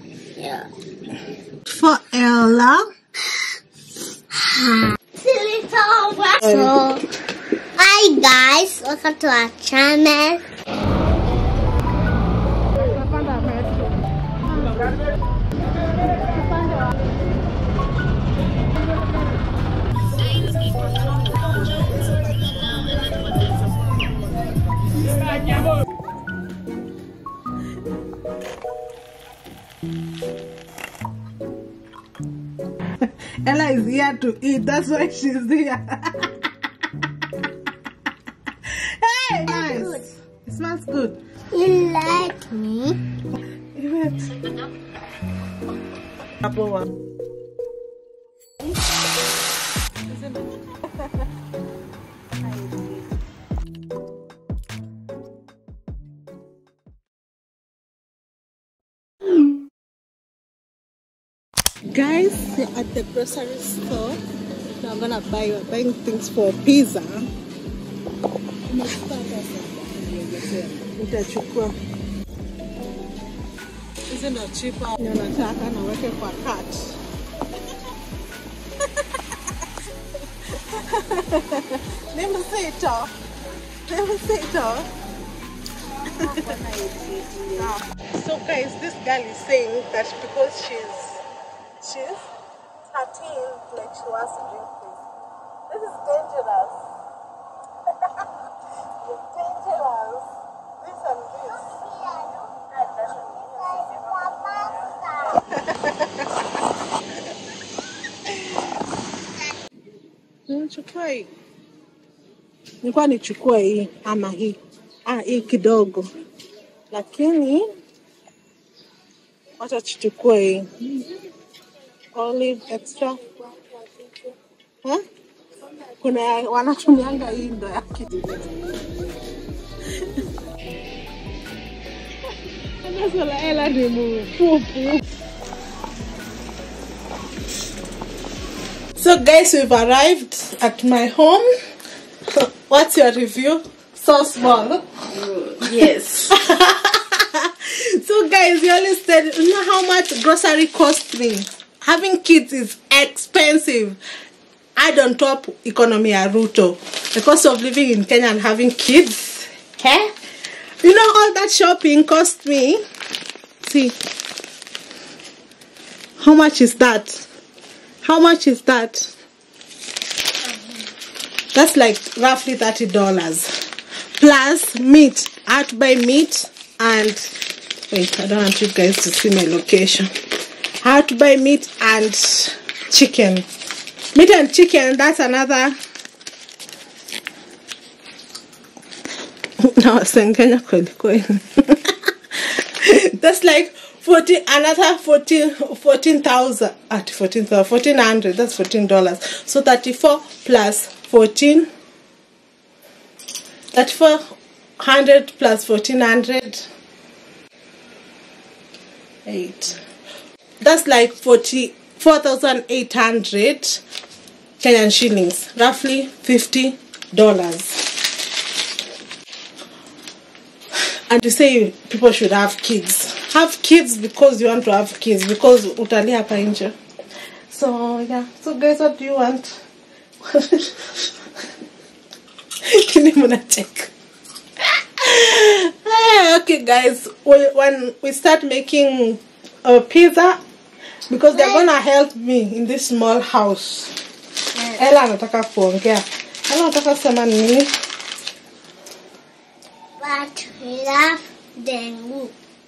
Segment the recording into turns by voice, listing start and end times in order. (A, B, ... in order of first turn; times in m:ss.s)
0:00.4-0:00.7 A
0:01.7-0:02.9 B
0:04.3-0:07.0 A
0:06.4-0:06.7 B
0:07.8-0:10.4 A
0:12.8-0:13.9 B
0:14.5-0:14.9 B
0:33.0-0:36.3 B
0:38.7-0:41.2 B
0:39.4-0:40.1 A
0:41.5-0:43.0 A
0:43.8-0:44.4 B
0:46.4-0:46.9 B
0:50.1-0:50.4 B
0:52.4-0:53.0 C
1:01.9-1:04.2 B
1:04.8-1:07.3 B
1:08.7-1:11.8 B
1:14.1-1:17.0 B
1:20.6-1:23.2 B
1:23.9-1:24.9 B
1:26.1-1:27.7 C
1:27.6-1:31.2 B
1:31.8-1:32.2 B
1:32.9-1:35.0 B
1:35.7-1:36.8 B
1:39.1-1:40.3 B
1:40.8-1:41.6 B
1:41.6-1:45.4 A
1:45.5-1:46.2 B
1:50.5-1:51.3 B
1:52.8-1:56.1 B
1:56.9-1:57.7 B
1:59.6-2:00.9 B
2:02.2-2:04.3 B
2:06.0-2:08.1 B
2:12.8-2:15.0 B
2:19.0-2:21.5 B
2:22.3-2:24.8 B
2:25.1-2:26.3 C
2:26.3-2:34.0 B
2:34.8-2:40.1 B
2:40.8-2:42.8 B
2:43.6-2:44.0 B
2:46.2-2:47.2 B
2:48.0-2:49.1 B
2:51.5-2:53.5 B
2:54.2-2:57.3 B
2:57.9-3:00.1 B
3:00.8-3:03.5 B
3:04.2-3:05.8 B
3:09.6-3:11.9 B
3:12.8-3:21.7 B
3:23.7-3:24.2 B
3:24.8-3:26.7 B
3:29.3-3:29.8 B
3:30.6-3:33.8 B
3:34.6-3:37.9 B
3:41.1-3:46.8 B
3:47.5-3:49.5 B
3:50.2-3:50.8 B
3:52.6-3:53.9 B
3:54.7-4:00.4 B
4:01.1-4:03.9 B
4:01.3-4:01.7 A
4:04.6-4:04.8 A
4:04.8-4:07.7 B
4:10.0-4:12.3 A